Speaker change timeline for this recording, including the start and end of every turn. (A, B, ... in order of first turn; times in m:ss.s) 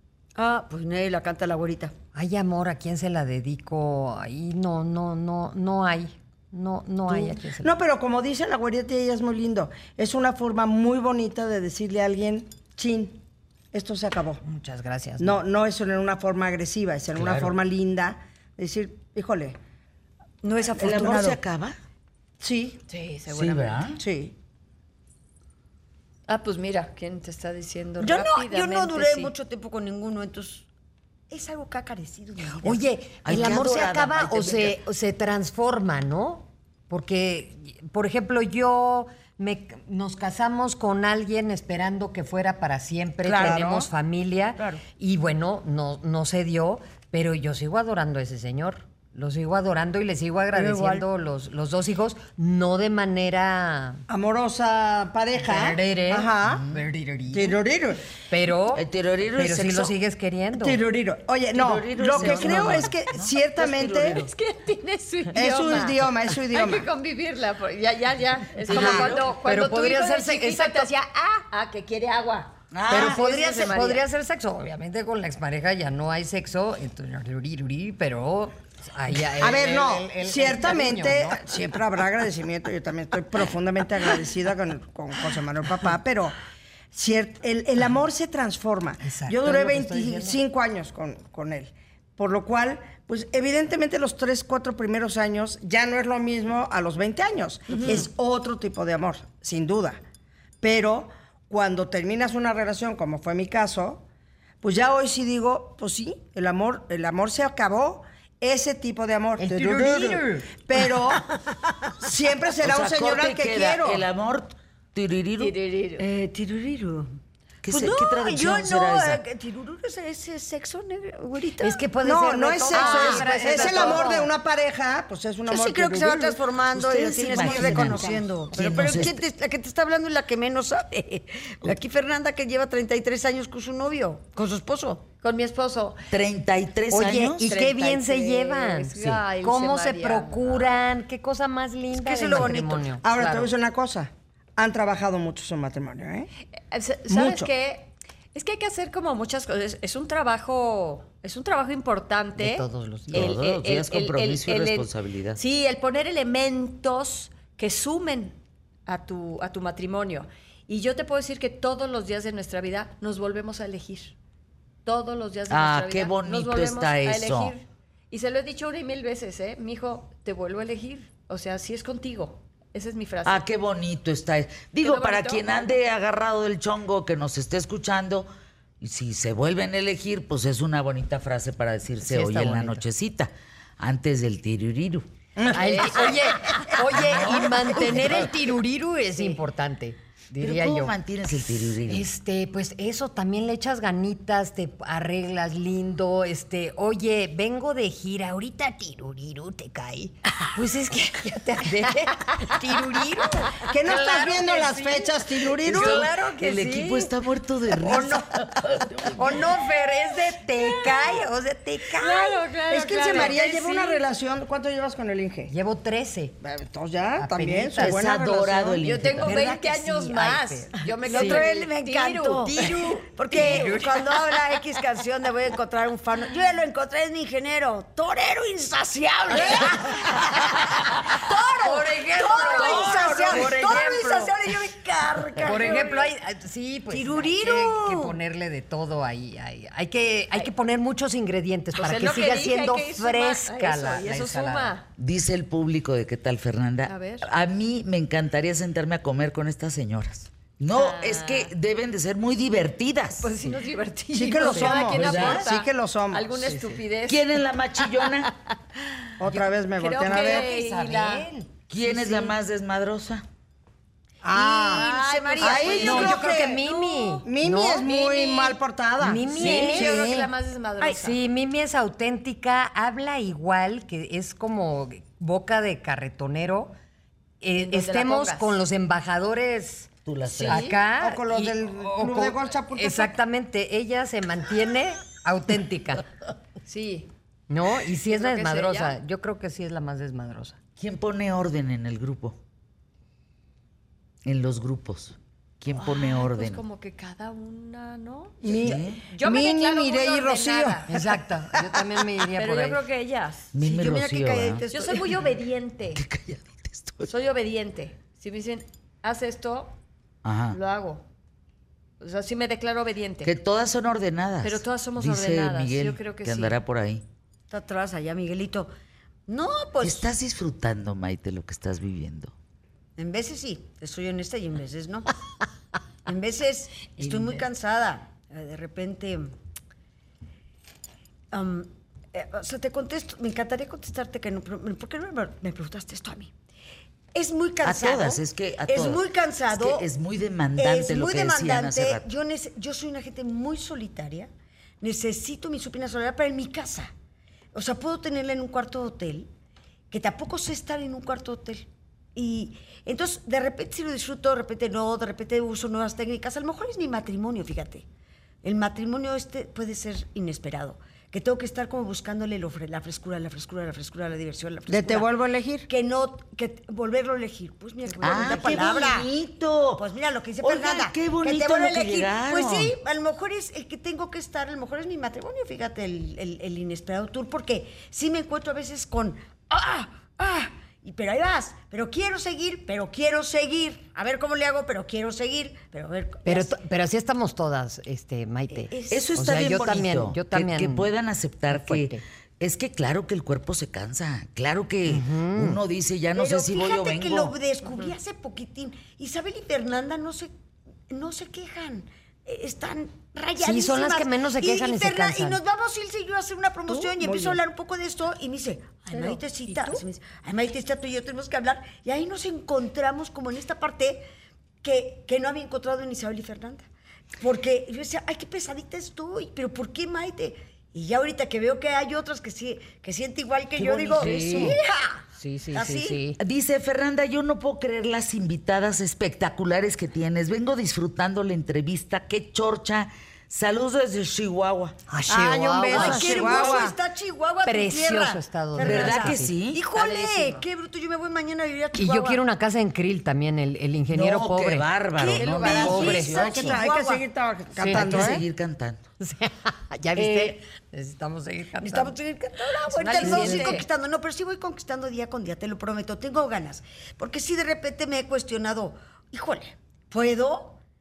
0:00.4-0:01.9 A
0:02.1-0:07.8 B
0:07.1-0:13.2 C
0:13.7-0:14.4 C
0:14.4-0:15.4 B
0:15.2-0:19.6 C
0:17.1-0:17.5 D
0:20.4-0:21.3 A
0:20.7-0:21.4 C
0:20.8-0:21.8 D
0:22.4-0:22.8 C
0:22.9-0:23.9 E
0:23.3-0:24.0 D
0:24.0-0:24.3 C
0:26.3-0:29.3 E
0:28.0-0:30.7 A
0:31.3-0:32.8 A
0:32.6-0:54.0 B
0:33.2-0:34.8 D
0:43.2-0:43.6 A
0:43.3-0:43.9 C
0:44.6-0:44.8 A
0:50.5-0:51.0 C
0:54.1-0:56.7 C
0:55.4-0:57.6 B
0:56.4-0:56.8 D
0:57.3-0:58.0 C
0:58.3-1:00.8 B
0:58.7-0:59.9 D
1:00.6-1:04.2 C
1:01.5-1:04.3 D
1:02.2-1:02.7 B
1:04.1-1:14.0 E
1:05.3-1:06.9 C
1:08.7-1:09.3 D
1:08.7-1:10.9 B
1:12.7-1:13.2 D
1:12.9-1:21.7 B
1:19.4-1:26.4 C
1:26.9-1:40.0 C
1:29.0-1:30.4 B
1:40.6-1:44.0 C
1:44.6-1:51.3 C
1:49.4-1:50.6 B
1:52.0-1:54.0 C
1:52.6-1:55.5 D
1:55.4-1:56.0 E
1:56.0-1:57.1 A
1:57.6-1:59.2 D
1:57.7-2:01.8 A
2:01.6-2:04.3 B
2:02.0-2:06.4 C
2:02.7-2:04.1 E
2:02.8-2:03.9 A
2:05.5-2:15.0 A
2:06.7-2:09.2 D
2:07.2-2:08.2 C
2:15.2-2:16.1 E
2:16.1-2:17.5 D
2:16.9-2:23.5 B
2:17.4-2:20.8 E
2:19.0-2:19.2 D
2:21.9-2:22.9 A
2:23.0-2:26.3 C
2:26.7-2:44.1 E
2:27.1-2:27.5 C
2:32.4-2:33.3 B
2:33.1-2:35.4 D
2:44.8-2:53.4 E
2:45.5-2:47.5 D
2:53.2-2:58.3 D
2:54.8-2:55.8 E
2:58.8-3:05.1 D
3:02.0-3:02.9 B
3:05.4-3:06.3 C
3:05.4-3:11.0 B
3:06.9-3:08.3 D
3:10.4-3:12.1 D
3:11.9-3:27.1 B
3:23.7-3:26.1 C
3:25.6-3:29.5 D
3:27.8-3:28.2 B
3:29.1-3:32.4 B
3:32.0-3:33.4 E
3:32.7-3:35.5 C
3:33.1-3:34.0 B
3:35.5-3:36.4 B
3:36.4-3:38.8 C
3:37.2-3:38.0 B
3:37.8-3:39.4 D
3:38.8-3:42.8 E
3:39.2-3:41.4 B
3:41.0-3:56.1 A
3:43.3-3:43.9 B
3:43.4-3:43.9 E
3:51.6-3:53.8 E
3:51.7-3:54.2 B
3:52.5-3:54.2 D
3:55.4-4:04.8 B
3:56.9-3:58.2 A
4:01.7-4:04.9 E
4:05.0-4:13.4 D
4:06.9-4:07.3 E
4:10.7-4:11.5 E
4:13.2-4:18.5 E
4:14.1-4:16.6 C
4:14.4-4:15.2 B
4:14.9-4:15.4 D
4:16.4-4:16.8 B
4:17.1-4:18.3 D
4:19.2-4:20.5 C
4:19.2-4:21.3 E
4:20.0-4:22.2 B
4:21.7-4:23.2 D
4:24.2-4:26.7 C
4:24.3-4:26.4 A
4:24.7-4:27.2 E
4:25.7-4:27.9 B
4:27.2-4:30.3 C
4:27.8-4:28.6 E
4:29.0-4:30.0 B
4:29.3-4:31.2 E
4:30.9-4:36.8 B
4:37.4-4:46.0 B
4:37.6-4:38.6 E
4:40.0-4:40.8 D
4:40.3-4:40.8 E
4:40.9-4:43.2 C
4:46.6-4:47.1 E
4:47.5-4:50.6 B
4:48.1-4:49.0 E
4:50.8-4:52.4 D
4:54.2-4:56.6 D
4:55.7-5:01.2 E
4:58.4-5:00.9 C
4:58.5-4:59.0 D
5:00.9-5:02.8 B
5:02.3-5:03.5 E
5:03.5-5:04.6 D
5:03.6-5:05.2 A
5:04.7-5:06.0 E
5:05.9-5:07.1 D
5:07.0-5:09.7 E
5:10.2-5:10.6 D
5:10.5-5:11.0 E
5:12.0-5:13.3 E
5:13.2-5:17.0 D
5:14.4-5:16.6 E
5:17.5-5:18.7 A
5:19.3-5:20.1 A
5:19.8-5:22.3 D
5:23.0-5:25.1 A
5:26.0-5:29.3 A
5:27.0-5:27.4 B
5:31.3-5:36.3 A
5:37.1-5:39.9 A
5:37.6-5:42.0 D
5:40.6-5:44.3 A
5:44.8-5:46.9 A
5:47.5-5:49.3 A
5:49.9-5:57.8 A
5:58.4-6:05.1 A
6:04.7-6:05.7 C
6:05.7-6:09.1 A
6:08.0-6:09.8 D
6:09.8-6:26.5 A
6:10.4-6:12.8 D
6:26.2-6:30.9 B
6:28.5-6:29.8 A
6:28.9-6:37.3 D
6:31.5-6:32.0 B
6:34.9-6:35.6 B
6:36.1-6:40.3 A
6:40.9-6:54.0 A
6:43.4-6:45.4 B
6:46.7-6:47.4 C
6:49.0-6:49.6 E
6:54.6-6:56.6 A
6:57.2-7:06.1 A
7:03.5-7:04.6 D
7:04.0-7:04.6 B
7:05.2-7:06.2 B
7:06.2-7:14.8 D
7:14.9-7:16.7 B
7:15.1-7:16.8 C
7:15.7-7:22.2 A
7:17.4-7:19.9 B
7:18.6-7:19.6 D
7:19.8-7:20.4 E
7:21.7-7:24.7 B
7:23.9-7:26.6 D
7:25.0-7:27.0 A
7:25.1-7:25.9 E
7:25.5-7:26.2 B
7:25.9-7:28.2 C
7:27.5-7:28.2 B
7:27.7-7:28.8 D
7:29.0-7:32.0 B
7:30.0-7:30.4 D
7:31.6-7:40.6 A
7:32.7-7:33.6 E
7:32.8-7:33.6 B
7:33.0-7:33.4 C